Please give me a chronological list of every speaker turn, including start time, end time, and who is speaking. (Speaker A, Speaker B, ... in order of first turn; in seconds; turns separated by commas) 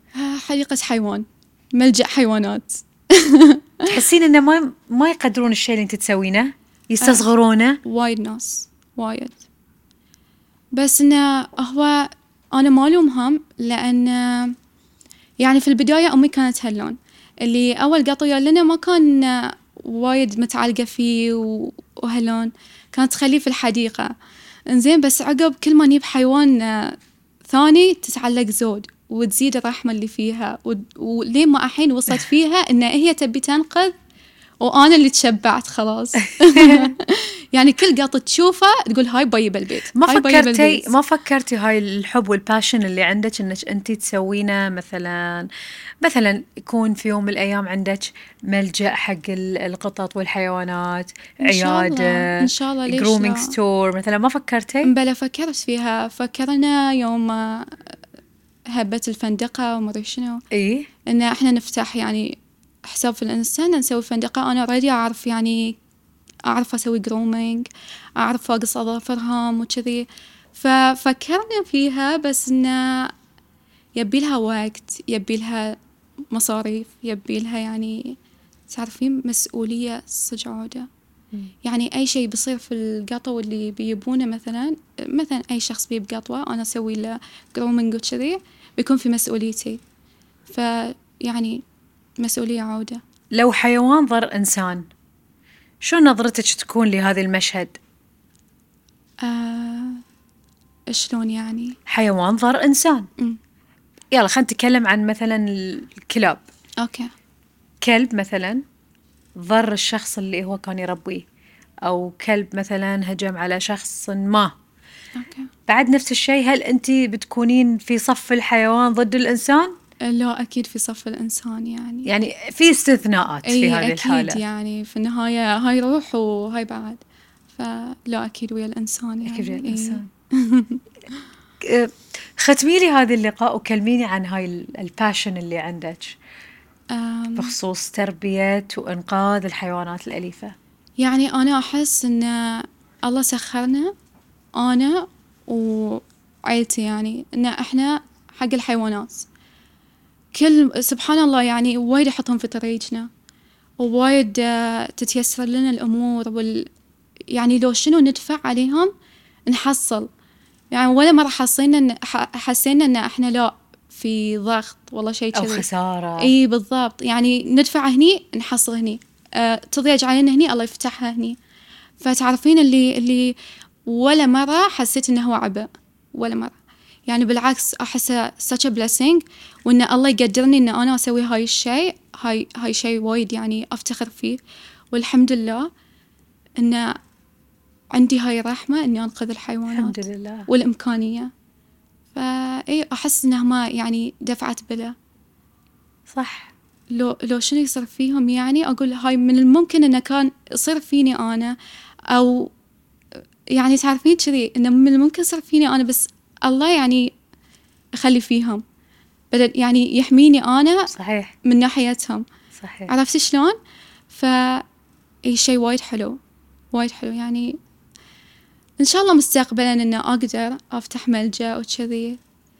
Speaker A: 0.1-3.9, Speaker B: 3.9-7.8, Speaker A: 7.8-9.4, Speaker A: 10.7-14.5, Speaker A: 15.4-24.1, Speaker A: 24.7-26.9, Speaker A: 27.5-33.9, Speaker A: 34.6-40.9, Speaker B: 36.3-36.9, Speaker B: 39.9-45.5, Speaker B: 46.0-54.9, Speaker A: 51.4-53.5, Speaker A: 54.8-58.0, Speaker A: 58.7-60.4, Speaker B: 60.5-60.9, Speaker A: 61.1-65.8, Speaker A: 66.5-73.1, Speaker A: 74.0-75.8, Speaker A: 76.3-78.2, Speaker A: 78.7-80.9, Speaker A: 81.6-89.8, Speaker A: 90.5-91.6, Speaker A: 92.2-93.0, Speaker B: 93.3-94.8, Speaker B: 95.8-97.8, Speaker A: 99.2-100.0, Speaker A: 100.9-101.8, Speaker B: 101.9-103.1, Speaker B: 104.1-106.4, Speaker A: 106.8-107.1, Speaker B: 107.8-108.6, Speaker B: 109.4-111.2, Speaker B: 111.8-114.5, Speaker A: 115.1-115.5, Speaker B: 115.7-119.7, Speaker A: 120.0-122.1, Speaker B: 122.0-124.4, Speaker A: 123.4-127.0, Speaker A: 127.5-130.8, Speaker B: 129.2-130.1, Speaker B: 131.6-136.2, Speaker A: 136.9-137.5, Speaker B: 137.3-140.5, Speaker A: 141.0-143.9, Speaker A: 144.6-149.3, Speaker A: 150.3-153.1, Speaker A: 153.8-156.7, Speaker A: 157.3-158.9, Speaker A: 159.4-160.1, Speaker A: 160.7-165.6, Speaker B: 165.3-166.3, Speaker A: 166.2-171.4, Speaker A: 172.0-176.5, Speaker A: 177.1-184.4, Speaker A: 184.9-185.7, Speaker A: 186.6-186.9, Speaker A: 187.9-191.3, Speaker B: 189.7-190.5, Speaker A: 192.1-194.9, Speaker B: 196.1-196.5, Speaker A: 196.9-201.6, Speaker A: 202.1-202.5, Speaker A: 203.5-207.1, Speaker A: 208.0-208.6, Speaker A: 209.3-210.9, Speaker B: 210.9-211.3, Speaker A: 211.4-212.2, Speaker B: 212.6-212.9, Speaker A: 212.9-213.6, Speaker A: 214.1-214.6, Speaker A: 215.3-216.2, Speaker A: 216.7-217.6, Speaker A: 218.8-222.2